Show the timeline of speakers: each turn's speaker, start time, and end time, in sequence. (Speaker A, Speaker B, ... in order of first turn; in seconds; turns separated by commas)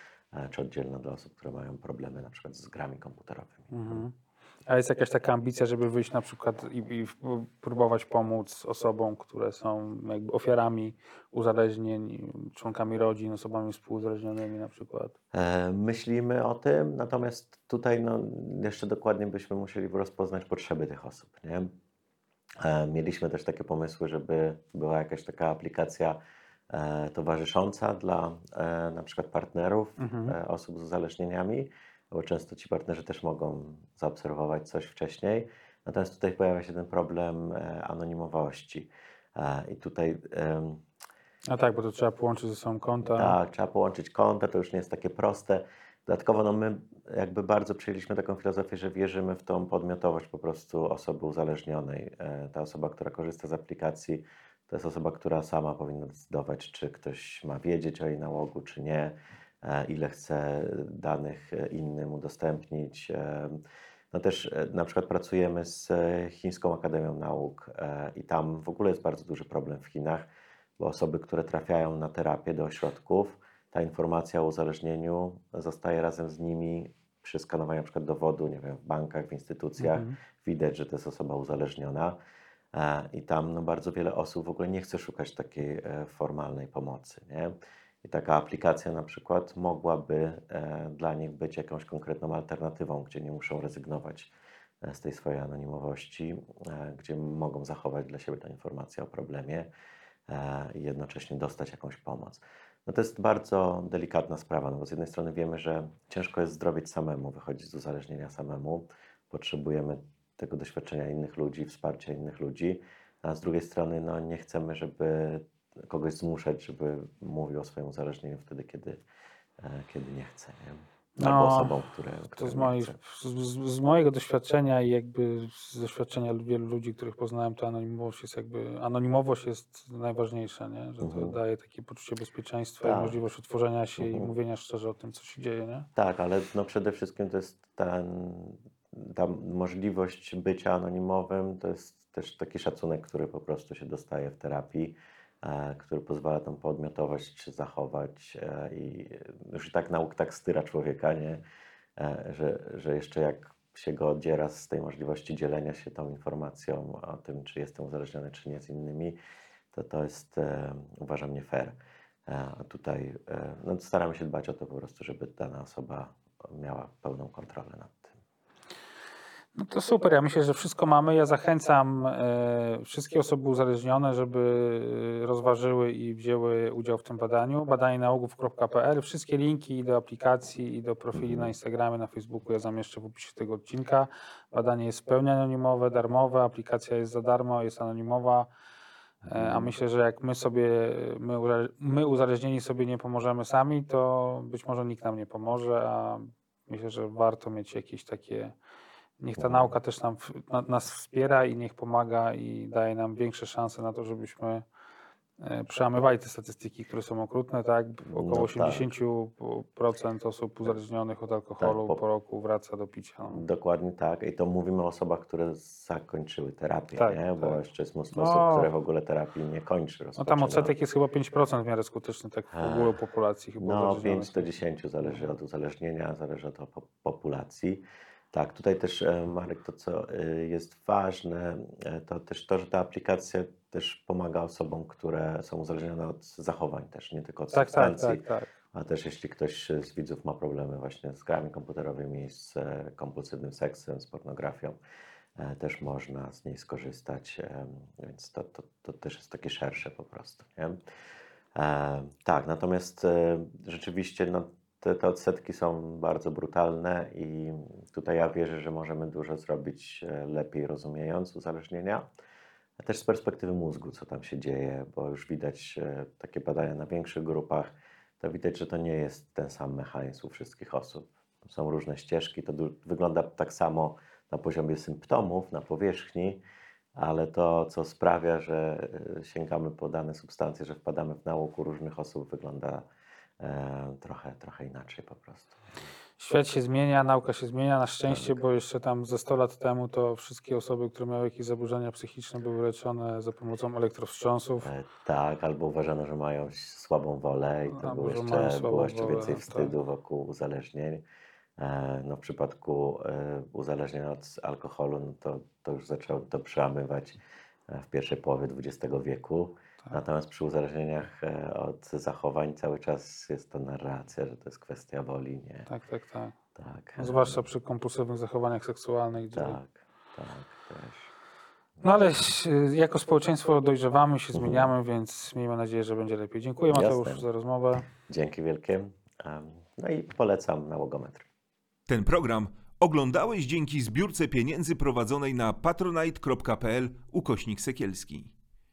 Speaker A: 0.3-4.0, Speaker B: 3.7-4.1, Speaker B: 4.7-15.2, Speaker A: 15.3-21.7, Speaker A: 22.6-26.2, Speaker A: 26.7-40.8, Speaker B: 30.0-30.4, Speaker B: 41.5-43.4, Speaker A: 43.2-63.6, Speaker A: 64.1-82.2, Speaker B: 79.8-80.2, Speaker A: 82.7-99.7, Speaker A: 100.3-119.0, Speaker A: 119.6-123.0, Speaker B: 121.2-121.7, Speaker B: 122.4-135.9, Speaker A: 131.0-131.4, Speaker A: 132.8-133.2, Speaker A: 134.0-134.3, Speaker A: 136.0-151.4, Speaker A: 152.0-159.2, Speaker A: 159.7-161.8, Speaker A: 162.3-168.2, Speaker B: 169.6-188.5, Speaker A: 181.1-181.5, Speaker A: 189.2-189.7, Speaker B: 189.3-198.6, Speaker B: 199.2-204.7, Speaker A: 199.4-199.7, Speaker B: 205.4-213.4, Speaker A: 208.1-208.9, Speaker A: 211.6-212.0, Speaker A: 213.3-220.7, Speaker B: 217.0-217.6, Speaker B: 218.1-218.7, Speaker B: 220.2-225.2, Speaker A: 222.5-222.9, Speaker A: 223.6-238.2, Speaker B: 237.5-238.5, Speaker A: 238.7-244.8, Speaker A: 245.4-250.8, Speaker A: 251.6-262.1, Speaker A: 262.8-276.4, Speaker A: 276.9-282.8, Speaker A: 283.4-285.7, Speaker B: 286.2-294.7, Speaker A: 288.1-288.4, Speaker A: 294.6-301.0, Speaker B: 297.7-299.7, Speaker A: 301.6-307.2, Speaker A: 307.7-315.7, Speaker B: 315.7-316.4, Speaker A: 316.6-317.4, Speaker B: 317.0-319.6, Speaker A: 319.4-321.1, Speaker B: 321.8-327.9, Speaker A: 324.3-324.7, Speaker A: 326.7-327.2, Speaker A: 327.9-331.3, Speaker C: 331.9-338.3